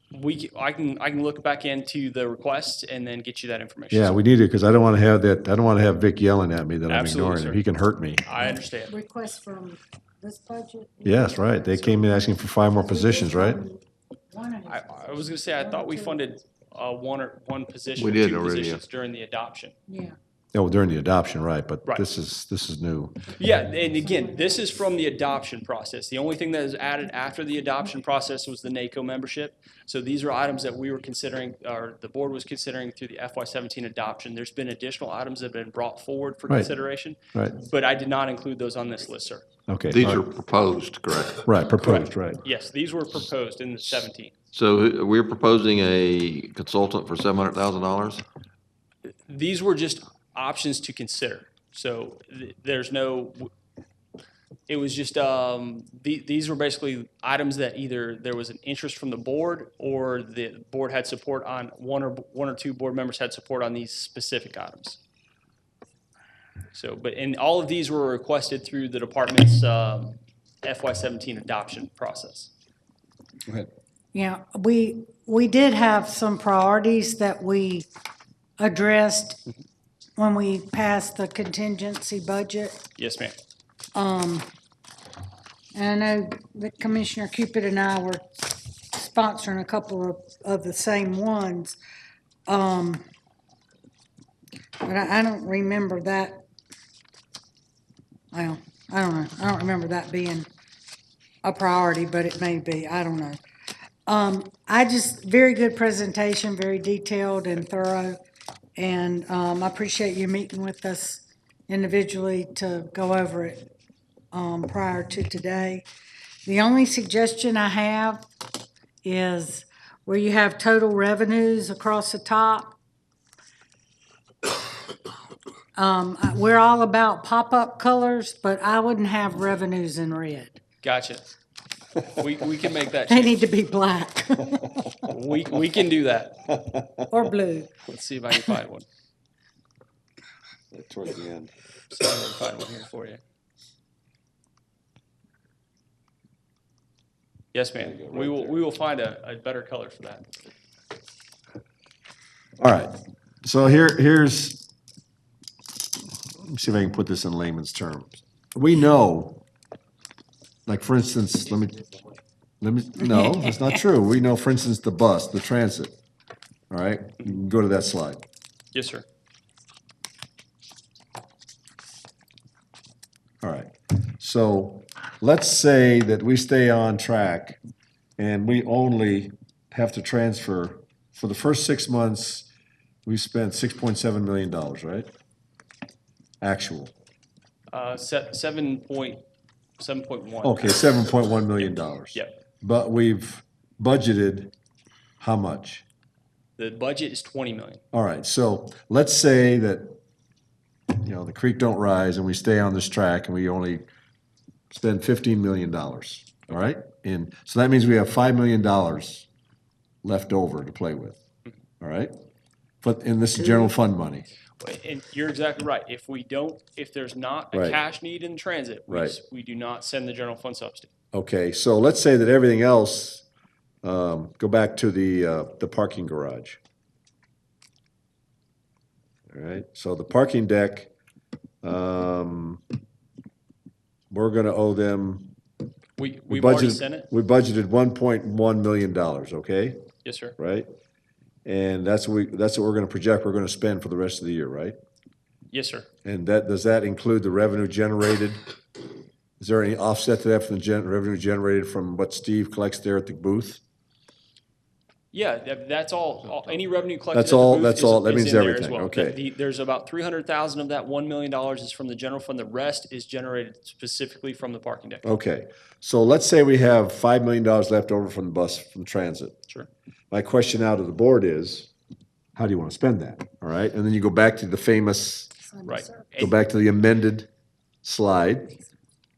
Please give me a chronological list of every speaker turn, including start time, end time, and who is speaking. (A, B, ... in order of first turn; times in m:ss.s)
0:00.1-0:04.2 A
0:03.9-0:08.2 B
0:06.9-0:07.6 A
0:08.2-0:09.0 A
0:08.4-0:16.4 C
0:11.0-0:13.6 B
0:14.6-0:19.8 A
0:18.0-0:18.8 D
0:19.9-0:20.2 C
0:20.5-0:23.2 B
0:23.4-0:39.4 A
0:24.1-0:24.4 C
0:39.7-0:40.3 B
0:39.9-0:41.5 D
0:41.4-0:42.4 B
0:41.8-0:44.3 A
0:44.5-0:48.2 D
0:49.3-0:53.5 A
0:54.7-1:05.0 A
1:06.7-1:12.5 A
1:14.1-1:17.9 C
1:18.6-1:19.4 C
1:20.2-1:22.8 C
1:23.0-1:23.4 A
1:24.0-1:24.4 C
1:25.7-1:31.8 C
1:32.5-1:33.0 C
1:34.8-1:36.4 C
1:38.3-1:40.5 C
1:41.4-1:43.4 C
1:44.1-1:48.2 C
1:48.8-1:53.7 C
1:54.3-1:55.9 C
1:56.5-1:58.3 C
1:59.0-2:02.8 C
2:05.8-2:10.6 C
2:10.8-2:11.3 A
2:12.1-2:13.4 A
2:13.1-2:14.8 C
2:15.0-2:16.5 A
2:17.1-2:17.7 C
2:17.8-2:18.9 A
2:20.7-2:21.5 B
2:21.9-2:23.2 A
2:27.5-2:30.3 A
2:27.8-2:28.6 B
2:32.6-2:34.7 B
2:36.4-2:39.4 B
2:40.7-2:42.0 B
2:42.6-2:45.9 B
2:43.1-2:43.5 C
2:46.7-2:48.2 B
2:48.7-2:49.1 A
2:53.4-2:57.6 B
2:58.2-3:02.5 B
3:03.1-3:05.1 B
3:06.4-3:06.9 B
3:07.7-3:09.2 A
3:09.8-3:10.8 A
3:10.4-3:14.5 B
3:15.2-3:15.8 B
3:16.6-3:17.8 A
3:17.9-3:20.0 B
3:20.9-3:23.9 B
3:24.7-3:29.3 B
3:30.0-3:31.2 B
3:31.8-3:32.1 B
3:32.8-3:34.3 B
3:34.6-3:40.9 A
3:37.5-3:37.8 B
3:38.9-3:39.2 B
3:41.1-3:43.2 B
3:43.8-3:46.6 B
3:49.3-3:50.9 B
3:51.6-3:52.6 B
3:54.1-3:55.3 B
3:56.0-3:57.1 A
3:56.3-3:59.8 B
4:00.0-4:00.4 A
4:00.4-4:00.7 B
4:01.4-4:04.8 B
4:05.5-4:05.9 A
4:06.0-4:08.4 B
4:09.4-4:13.6 B
4:15.1-4:25.0 A
4:17.1-4:19.2 B
4:25.0-4:29.4 B
4:30.1-4:31.7 B
4:32.4-4:35.3 B
4:35.5-4:36.1 C
4:35.6-4:36.4 A
4:36.2-4:37.3 B
4:37.8-4:38.5 B